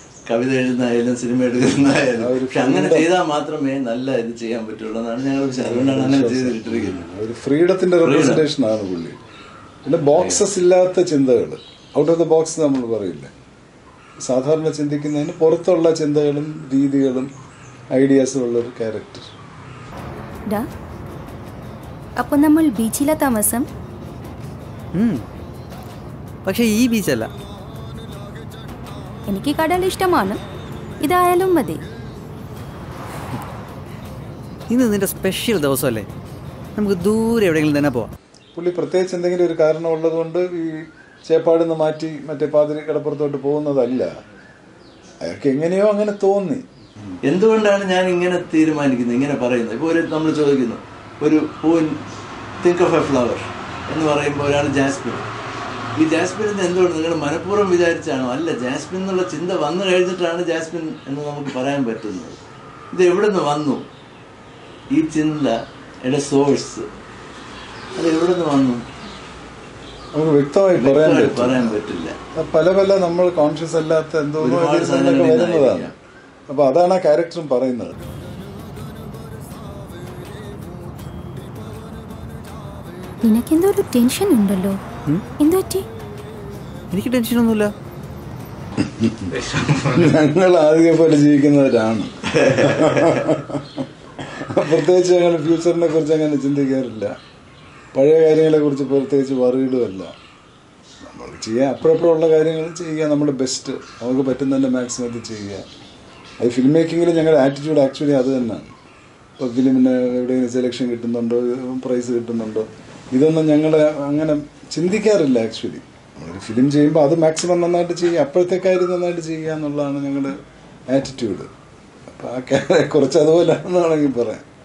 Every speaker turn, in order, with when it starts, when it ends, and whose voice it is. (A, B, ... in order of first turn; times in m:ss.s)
0:00.3-0:07.0 A
0:02.2-0:03.1 B
0:05.5-0:09.2 B
0:08.0-0:08.4 A
0:09.8-0:13.3 B
0:10.1-0:10.4 A
0:14.2-0:17.3 B
0:18.0-0:19.3 B
0:22.2-0:23.7 C
0:24.9-0:25.2 D
0:26.4-0:27.3 D
0:29.3-0:30.4 C
0:31.0-0:31.8 C
0:34.7-0:36.1 D
0:36.8-0:38.1 D
0:38.6-0:44.1 B
0:45.2-0:46.6 B
0:47.3-0:52.0 A
0:52.6-0:55.3 A
0:56.0-1:02.4 A
1:02.9-1:03.9 A
1:04.9-1:06.9 A
1:08.0-1:08.8 A
1:10.1-1:11.8 B
1:10.7-1:12.2 A
1:12.4-1:15.9 B
1:14.4-1:16.0 A
1:16.5-1:18.0 B
1:23.2-1:24.8 C
1:25.4-1:25.9 C
1:26.9-1:27.7 D
1:28.8-1:37.1 B
1:29.4-1:30.0 A
1:32.4-1:33.3 A
1:37.9-1:40.1 B
1:41.1-1:45.6 B
1:46.4-1:48.7 B
1:49.4-2:00.4 B
2:00.9-2:01.5 B
2:02.1-2:04.5 B